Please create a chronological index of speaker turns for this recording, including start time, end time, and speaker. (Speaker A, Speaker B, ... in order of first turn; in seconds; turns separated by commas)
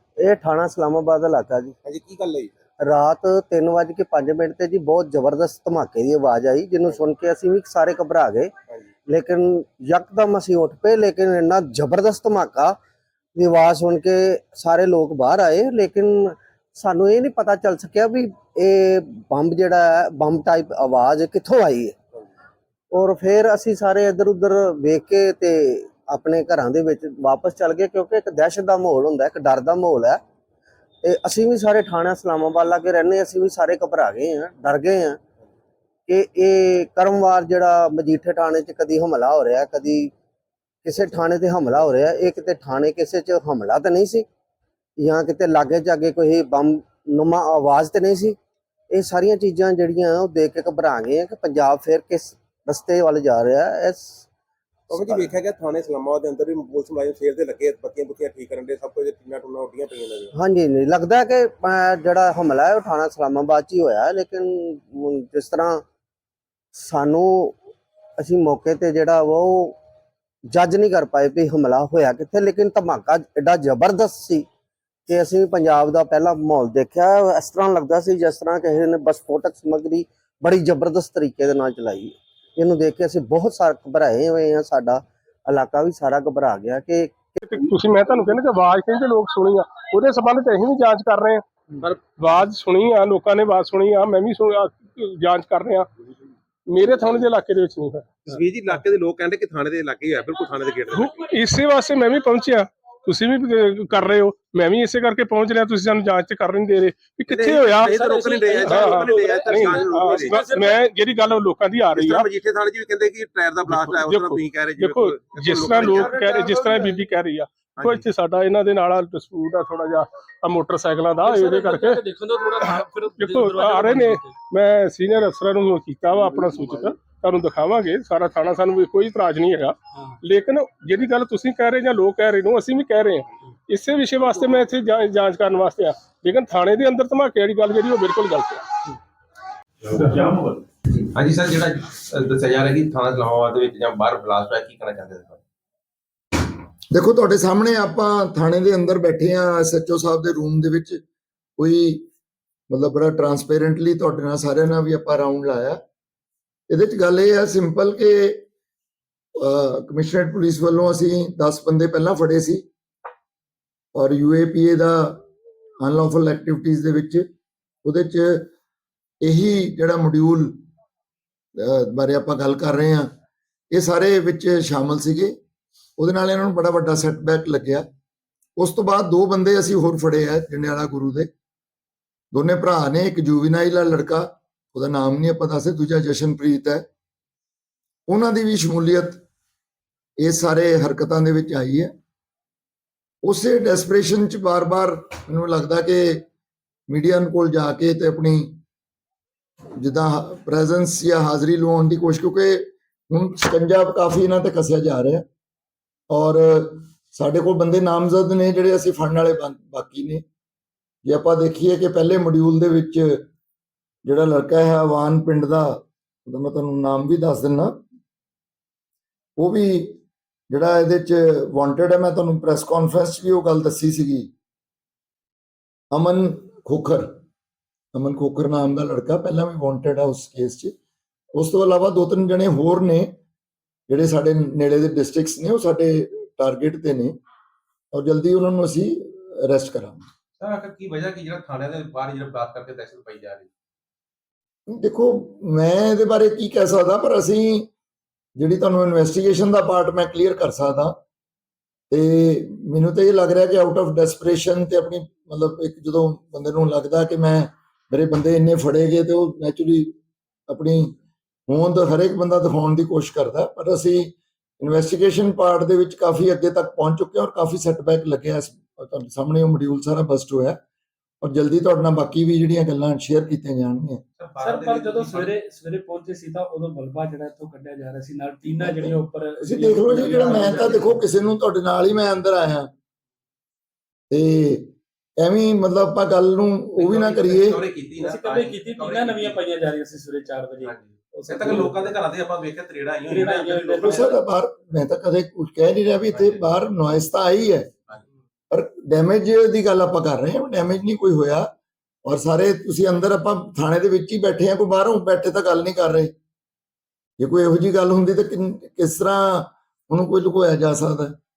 Speaker A: 0.2-1.8, Speaker B: 1.8-2.5, Speaker A: 2.8-8.5, Speaker A: 9.1-12.8, Speaker A: 13.4-22.0, Speaker A: 22.9-30.2, Speaker A: 31.0-35.2, Speaker A: 36.1-40.1, Speaker A: 40.8-44.3, Speaker A: 45.0-48.4, Speaker A: 48.9-54.2, Speaker A: 54.9-55.3, Speaker B: 54.9-60.3, Speaker A: 60.3-65.8, Speaker A: 66.7-67.6, Speaker A: 68.2-69.8, Speaker A: 70.5-74.5, Speaker A: 75.1-87.4, Speaker C: 87.4-95.9, Speaker C: 96.7-98.3, Speaker B: 98.3-101.1, Speaker C: 100.9-108.0, Speaker B: 107.3-110.5, Speaker D: 107.8-110.8, Speaker C: 108.5-112.3, Speaker B: 111.9-117.1, Speaker C: 113.7-122.0, Speaker B: 117.8-118.1, Speaker D: 121.2-124.4, Speaker C: 122.6-138.8, Speaker B: 139.8-145.4, Speaker E: 146.9-151.0, Speaker E: 151.6-152.1, Speaker E: 152.7-155.8, Speaker E: 156.7-158.4, Speaker E: 159.4-162.6, Speaker E: 163.9-165.3, Speaker E: 165.8-167.3, Speaker E: 167.8-168.5, Speaker E: 169.2-170.6, Speaker E: 171.6-173.1, Speaker E: 173.7-175.3, Speaker E: 176.0-177.9, Speaker E: 178.6-181.3, Speaker E: 182.3-186.9, Speaker E: 188.1-189.2, Speaker E: 190.2-191.9, Speaker E: 193.2-196.2, Speaker E: 196.9-198.6, Speaker E: 199.8-205.2, Speaker E: 206.1-210.2, Speaker E: 211.1-213.3, Speaker E: 214.1-217.8, Speaker E: 219.4-220.0, Speaker E: 220.5-224.3, Speaker E: 225.9-227.1, Speaker E: 227.9-230.7, Speaker E: 231.3-233.1, Speaker E: 233.9-237.2, Speaker E: 237.9-240.0, Speaker B: 240.4-243.5, Speaker E: 244.7-247.7, Speaker E: 248.4-251.0, Speaker E: 251.9-259.9, Speaker E: 260.5-260.9, Speaker E: 261.5-270.6, Speaker E: 271.2-274.0, Speaker B: 274.2-275.4, Speaker D: 274.4-281.1, Speaker E: 278.4-282.7, Speaker E: 284.1-287.6, Speaker B: 286.8-289.5, Speaker D: 288.0-292.0, Speaker B: 290.6-293.9, Speaker D: 293.1-294.2, Speaker E: 293.8-297.7, Speaker B: 296.1-296.5, Speaker E: 298.5-301.5, Speaker E: 302.1-306.1, Speaker E: 307.2-311.2